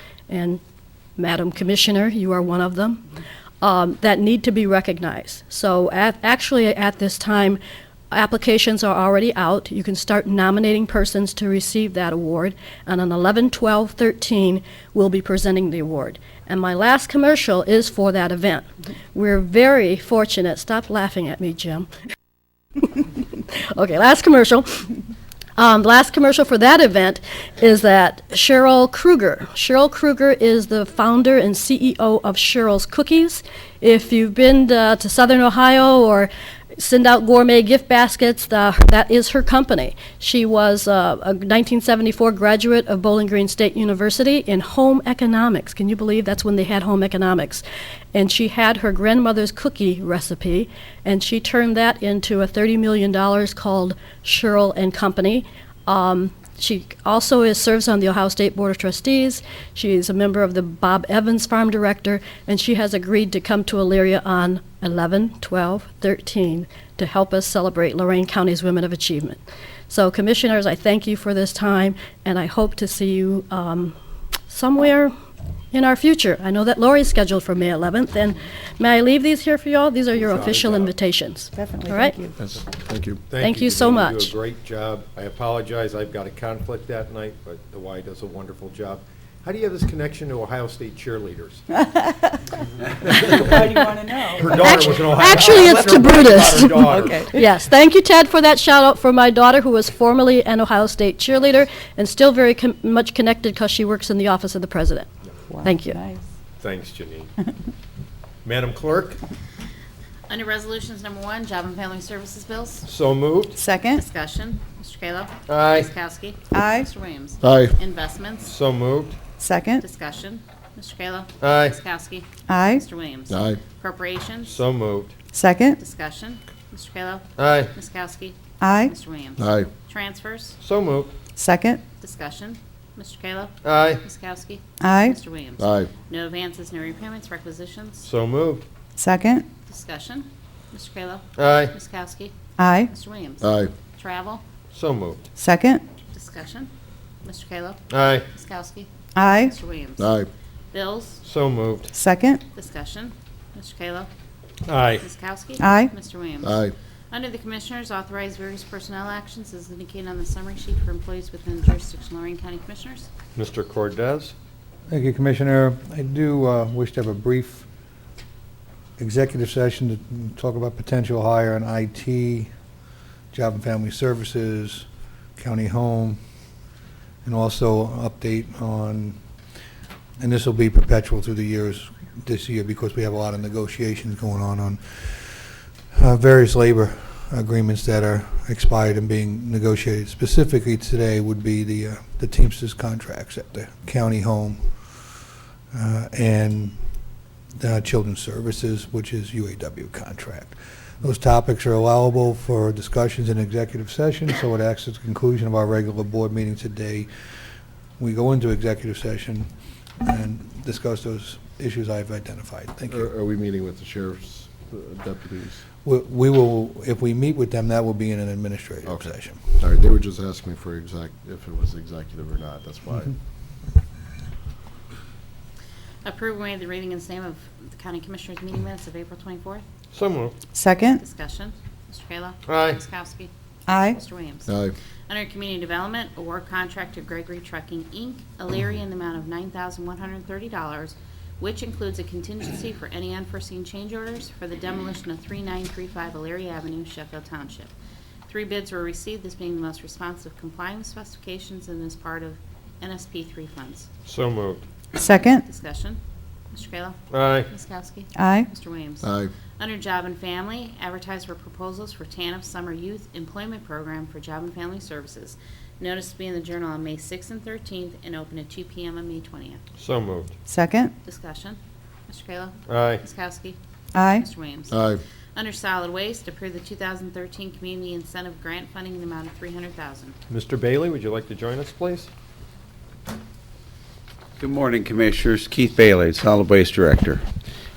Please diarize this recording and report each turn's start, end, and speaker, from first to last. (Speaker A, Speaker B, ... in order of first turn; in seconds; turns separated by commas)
Speaker A: 0.3-0.6, Speaker A: 1.2-3.0, Speaker A: 3.6-7.6, Speaker A: 8.1-21.9, Speaker A: 22.8-24.9, Speaker A: 25.6-69.4, Speaker A: 69.9-74.0, Speaker A: 74.5-75.1, Speaker A: 75.7-82.2, Speaker B: 80.2-80.9, Speaker C: 81.5-82.6, Speaker D: 82.5-83.2, Speaker B: 83.3-91.6, Speaker A: 83.4-84.3, Speaker B: 93.0-97.5, Speaker A: 94.4-105.1, Speaker C: 105.5-106.2, Speaker A: 105.6-106.0, Speaker B: 106.6-107.3, Speaker B: 108.4-109.2, Speaker E: 110.3-112.8, Speaker B: 112.9-113.6, Speaker C: 113.5-114.0, Speaker E: 114.0-118.5, Speaker B: 115.5-115.9, Speaker C: 116.5-116.9, Speaker D: 117.4-117.8, Speaker B: 118.4-119.2, Speaker C: 119.4-119.8, Speaker E: 119.8-124.5, Speaker B: 121.4-121.8, Speaker C: 122.5-122.8, Speaker D: 123.3-123.6, Speaker B: 124.4-125.2, Speaker C: 125.3-125.8, Speaker E: 125.8-130.6, Speaker B: 127.4-127.7, Speaker C: 128.6-128.9, Speaker D: 129.4-129.7, Speaker B: 130.6-131.1, Speaker C: 131.4-131.8, Speaker E: 132.0-138.1, Speaker B: 133.6-134.0, Speaker C: 134.8-135.2, Speaker D: 135.6-135.9, Speaker B: 138.0-138.7, Speaker C: 139.0-139.5, Speaker E: 139.7-142.3, Speaker B: 141.4-141.8, Speaker C: 142.6-142.9, Speaker E: 142.9-144.4, Speaker D: 143.4-143.7, Speaker B: 144.7-145.2, Speaker C: 145.4-145.8, Speaker E: 146.1-146.7, Speaker E: 147.2-150.2, Speaker B: 147.9-148.3, Speaker C: 149.2-149.6, Speaker D: 150.0-150.3, Speaker E: 150.7-151.2, Speaker B: 151.2-151.9, Speaker C: 151.9-152.4, Speaker E: 152.6-154.1, Speaker B: 154.7-155.1, Speaker E: 155.0-163.1, Speaker C: 155.6-155.9, Speaker D: 156.4-156.7, Speaker B: 163.3-164.3, Speaker F: 164.9-167.7, Speaker F: 169.0-172.5, Speaker F: 173.3-174.9, Speaker F: 175.4-176.2, Speaker F: 177.2-179.2, Speaker F: 180.2-194.6, Speaker F: 195.7-196.8, Speaker F: 197.6-207.1, Speaker F: 208.0-209.5, Speaker F: 210.1-213.1, Speaker D: 212.9-215.6, Speaker F: 215.8-219.6, Speaker D: 218.8-223.2, Speaker E: 226.0-229.6, Speaker B: 229.9-230.3, Speaker C: 230.5-231.0, Speaker E: 231.0-233.3, Speaker B: 232.5-232.8, Speaker C: 233.7-234.0, Speaker E: 233.9-234.5, Speaker D: 234.5-234.7, Speaker E: 235.1-247.7, Speaker E: 248.3-253.9, Speaker B: 254.1-254.7, Speaker C: 254.9-255.4, Speaker E: 255.4-256.0, Speaker E: 256.5-269.6, Speaker B: 257.1-257.5, Speaker C: 258.1-258.5, Speaker D: 259.0-259.3, Speaker B: 269.8-270.3, Speaker C: 270.5-270.9, Speaker E: 271.1-273.6, Speaker B: 272.7-273.0, Speaker C: 273.9-274.3, Speaker E: 274.2-274.8, Speaker D: 274.7-275.0, Speaker E: 275.4-280.2, Speaker B: 280.3-282.1, Speaker G: 284.4-287.2